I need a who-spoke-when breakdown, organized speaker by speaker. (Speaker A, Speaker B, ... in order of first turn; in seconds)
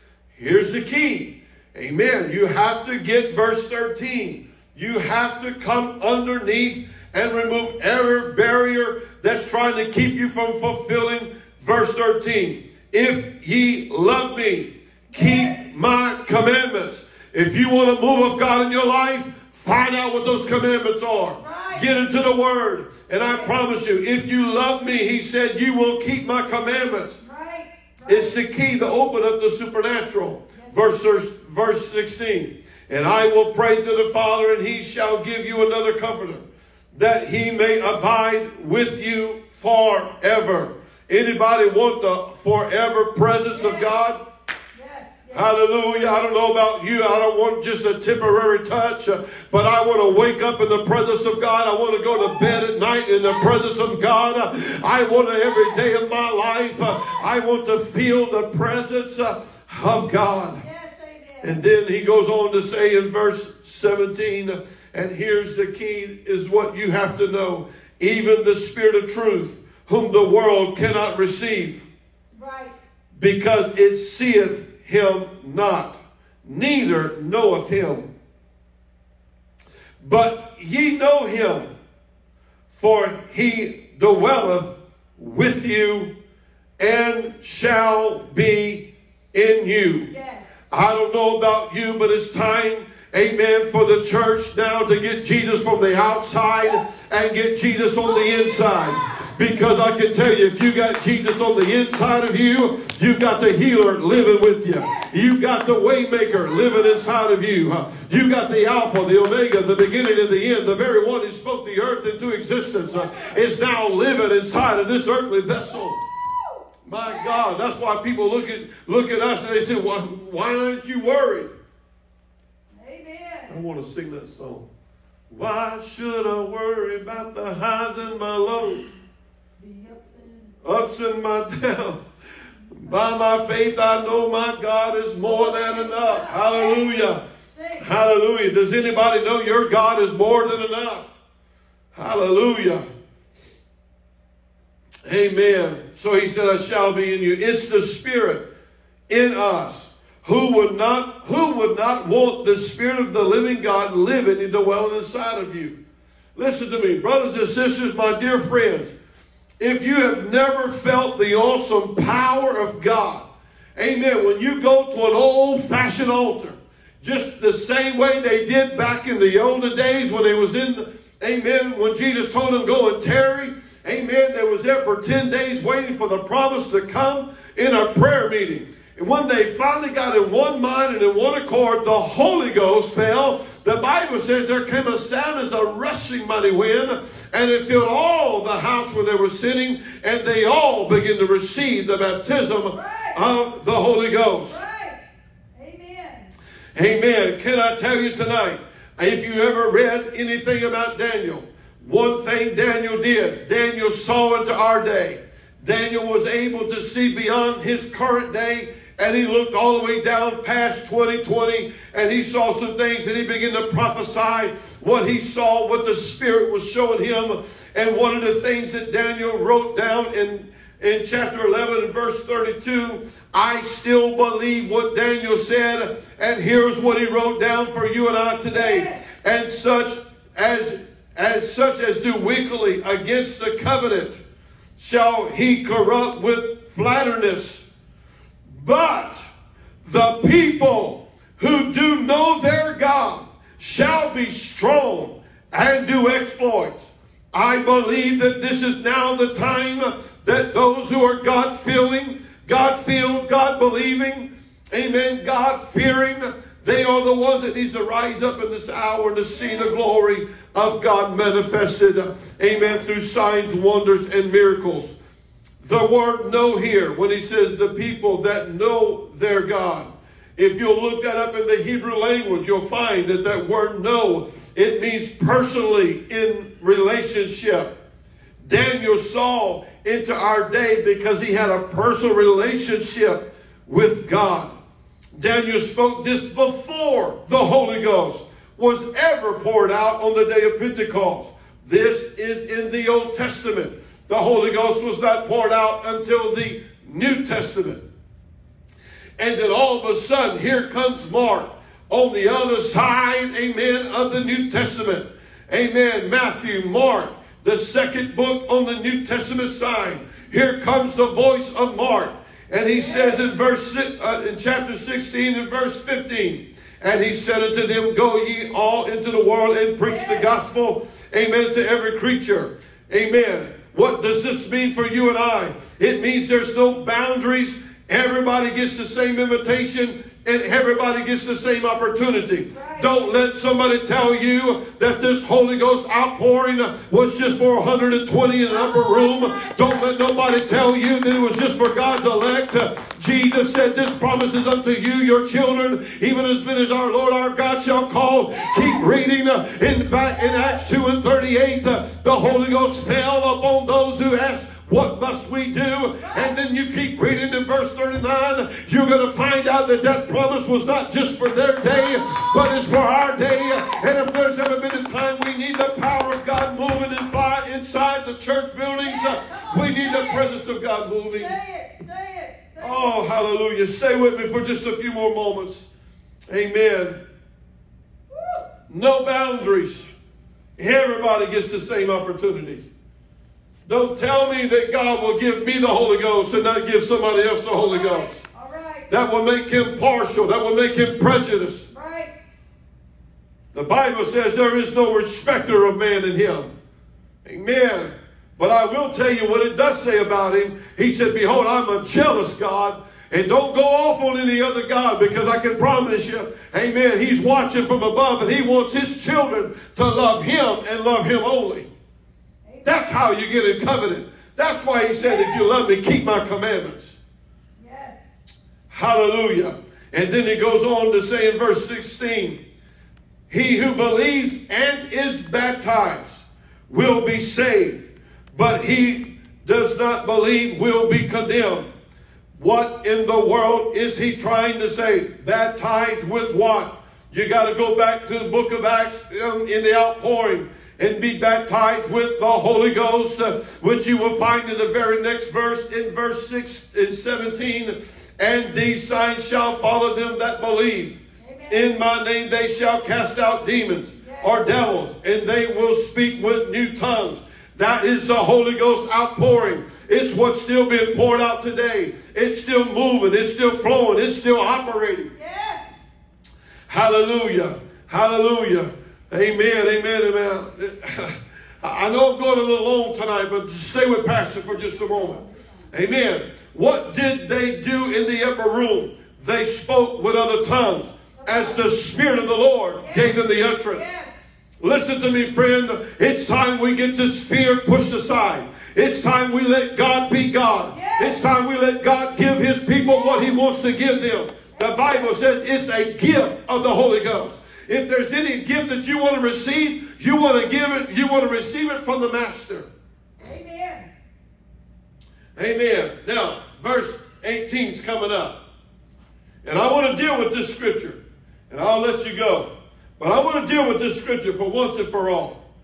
Speaker A: 0.3-27.2, 28.1-36.4, 36.9-44.2, 45.3-60.6, 61.4-71.8, 73.2-78.1, 80.0-81.7, 82.7-86.1, 86.8-90.1, 90.7-116.0, 116.9-121.5, 123.5-124.7, 125.3-128.9, 130.6-132.1, 132.7-137.2, 137.8-141.2, 141.9-142.8, 145.1-148.4, 149.1-155.8, 156.3-158.9, 159.6-194.6, 196.8-234.2, 234.8-237.7, 238.5-239.2, 239.8-265.0, 265.6-277.7, 278.4-284.6, 285.1-297.8, 299.2-371.4, 372.6-375.7, 376.3-377.0, 378.7-379.9, 380.6-382.7, 383.7-388.2, 388.9-391.6, 393.5-396.5, 397.2-411.7, 412.6-417.0, 418.7-422.4, 423.3-431.7, 432.4-451.0, 451.5-465.1, 466.7-475.2, 475.7-483.9, 484.6-502.7, 505.4-508.4, 509.4-511.0, 511.5-512.5, 513.0-515.4
Speaker B: 15.1-15.7, 21.4-21.9, 23.2-23.6, 27.2-28.4, 30.6-30.8, 43.5-44.0, 44.7-45.5, 52.1-52.6, 53.2-53.5, 60.6-61.6, 72.3-72.8, 90.1-90.5, 98.0-99.3, 104.7-105.2, 106.3-107.0, 112.6-113.4, 117.0-117.5, 122.7-123.5, 129.6-130.6, 135.2-137.9, 192.7-193.2, 194.5-195.0, 195.6-196.3, 228.5-229.1, 312.7-313.3, 319.8-320.3, 332.5-332.9, 338.5-339.6, 348.3-348.8, 350.2-350.6, 356.0-356.3, 361.8-362.4, 363.3-363.9, 368.8-370.2, 371.1-373.0, 378.1-378.5, 387.6-388.9, 391.7-392.1, 412.5-413.1, 415.0-415.5, 417.6-418.1, 451.2-451.8, 453.9-454.4, 465.1-465.7, 474.5-475.7, 481.2-481.6, 482.8-484.1, 490.7-491.2, 492.8-493.3, 494.5-495.1, 503.2-503.9